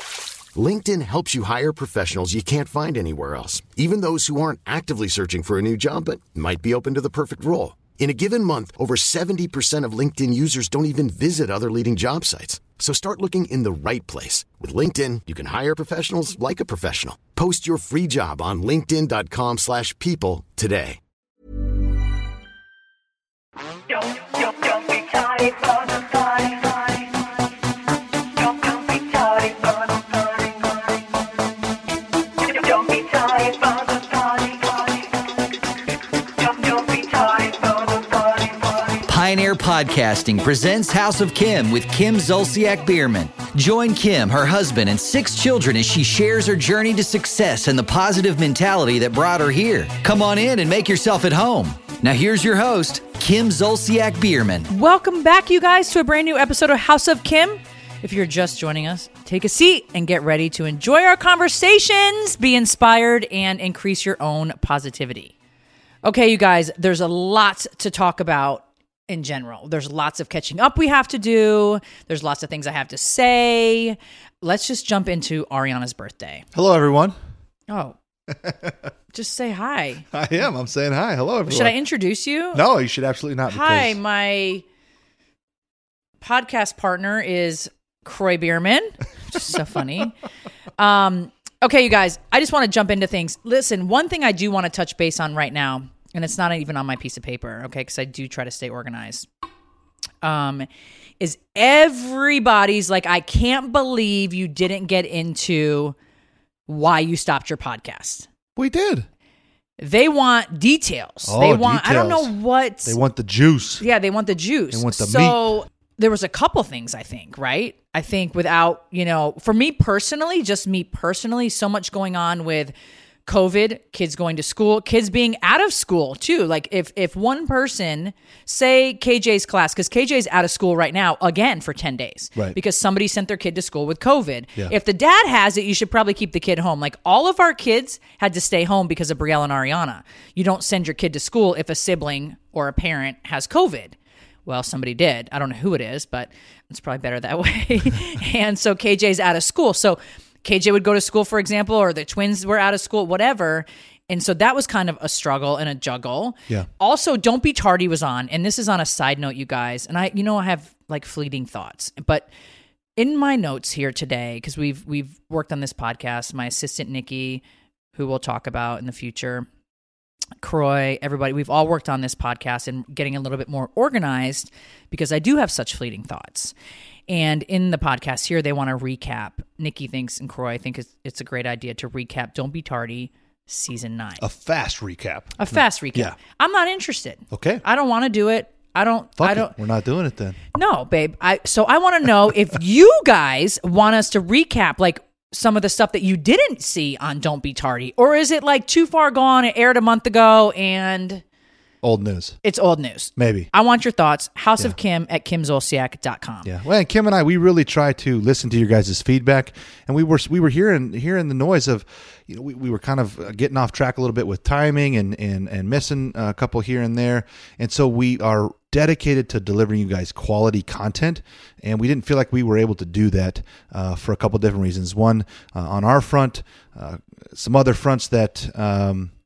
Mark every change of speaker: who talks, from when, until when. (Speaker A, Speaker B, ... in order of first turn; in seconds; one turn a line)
Speaker A: 0.6-21.0
Speaker B: 24.8-26.5
Speaker B: 29.2-29.6
Speaker B: 32.8-34.5
Speaker B: 37.2-37.9
Speaker C: 39.0-54.7
Speaker D: 54.7-65.3
Speaker D: 66.0-76.5
Speaker E: 76.5-77.2
Speaker D: 77.7-78.0
Speaker E: 78.3-78.8
Speaker D: 79.1-80.0
Speaker E: 80.1-81.8
Speaker D: 81.5-82.6
Speaker E: 82.5-84.0
Speaker D: 83.5-84.6
Speaker D: 86.2-90.2
Speaker D: 90.8-99.3
Speaker D: 100.2-100.7
Speaker D: 101.2-106.0
Speaker D: 106.7-108.3
Speaker E: 108.6-109.1
Speaker D: 109.8-113.0
Speaker E: 111.3-112.3
Speaker E: 112.9-113.8
Speaker D: 113.8-122.7
Speaker E: 114.7-115.4
Speaker D: 123.3-143.9
Speaker D: 144.5-162.3
Speaker D: 163.0-167.4
Speaker D: 167.9-169.5
Speaker D: 170.4-176.5
Speaker D: 177.1-184.2
Speaker E: 184.2-186.2
Speaker D: 185.4-189.6
Speaker E: 187.3-187.6
Speaker E: 189.2-190.4
Speaker D: 190.6-201.2
Speaker E: 201.8-202.4
Speaker D: 202.4-206.5
Speaker E: 203.2-203.5
Speaker E: 206.4-229.1